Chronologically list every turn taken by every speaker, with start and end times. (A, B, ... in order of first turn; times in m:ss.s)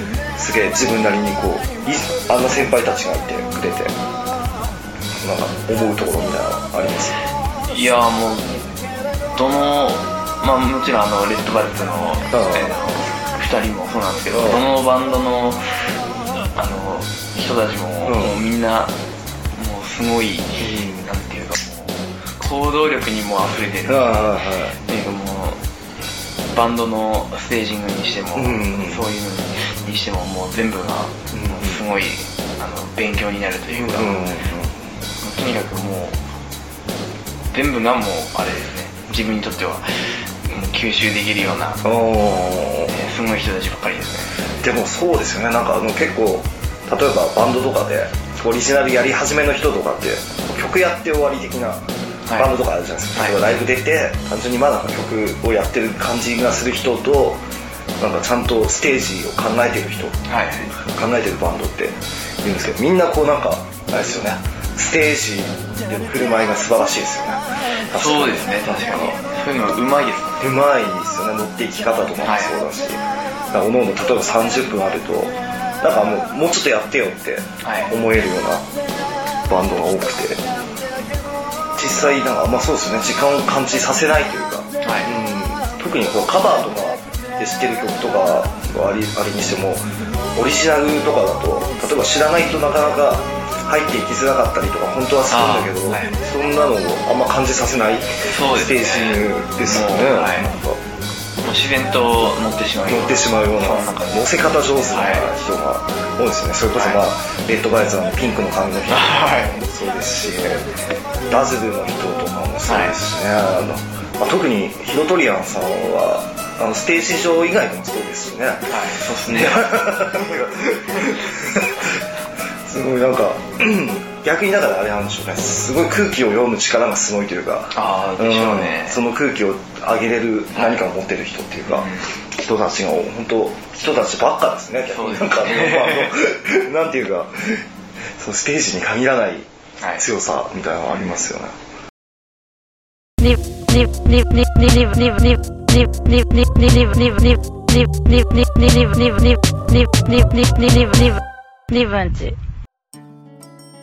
0:00.4-0:03.9 A
0:05.2-0:07.2 A
0:07.7-0:08.5 B
0:09.4-0:15.7 B
0:12.3-0:12.7 A
0:14.3-0:14.6 A
0:16.6-0:19.0 B
0:18.0-0:18.3 A
0:19.5-0:25.6 B
0:20.6-0:21.1 A
0:23.9-0:24.8 A
0:26.5-0:34.3 B
0:28.4-0:29.0 A
0:31.3-0:31.8 A
0:33.7-0:34.7 A
0:35.2-0:36.2 B
0:37.5-0:41.8 B
0:41.8-0:42.9 A
0:42.9-0:44.4 B
0:44.6-0:57.4 A
0:52.3-0:52.6 B
0:58.0-1:09.2 A
1:00.3-1:00.7 B
1:07.9-1:10.5 B
1:10.4-1:13.0 A
1:12.2-1:12.6 B
1:13.5-1:18.7 A
1:17.6-1:17.9 B
1:19.5-1:20.4 A
1:21.8-1:29.8 A
1:24.8-1:25.1 B
1:30.4-1:40.8 A
1:35.3-1:36.2 B
1:38.2-1:40.5 B
1:41.4-1:45.3 B
1:42.8-1:50.7 A
1:48.9-1:49.6 B
1:51.3-2:02.0 A
1:52.7-1:53.0 B
1:58.7-1:59.7 B
2:02.7-2:17.6 A
2:07.7-2:09.0 B
2:11.7-2:12.1 B
2:14.9-2:16.1 B
2:18.2-2:21.6 A
2:19.8-2:20.0 B
2:23.2-2:31.2 C
2:31.7-2:32.4 C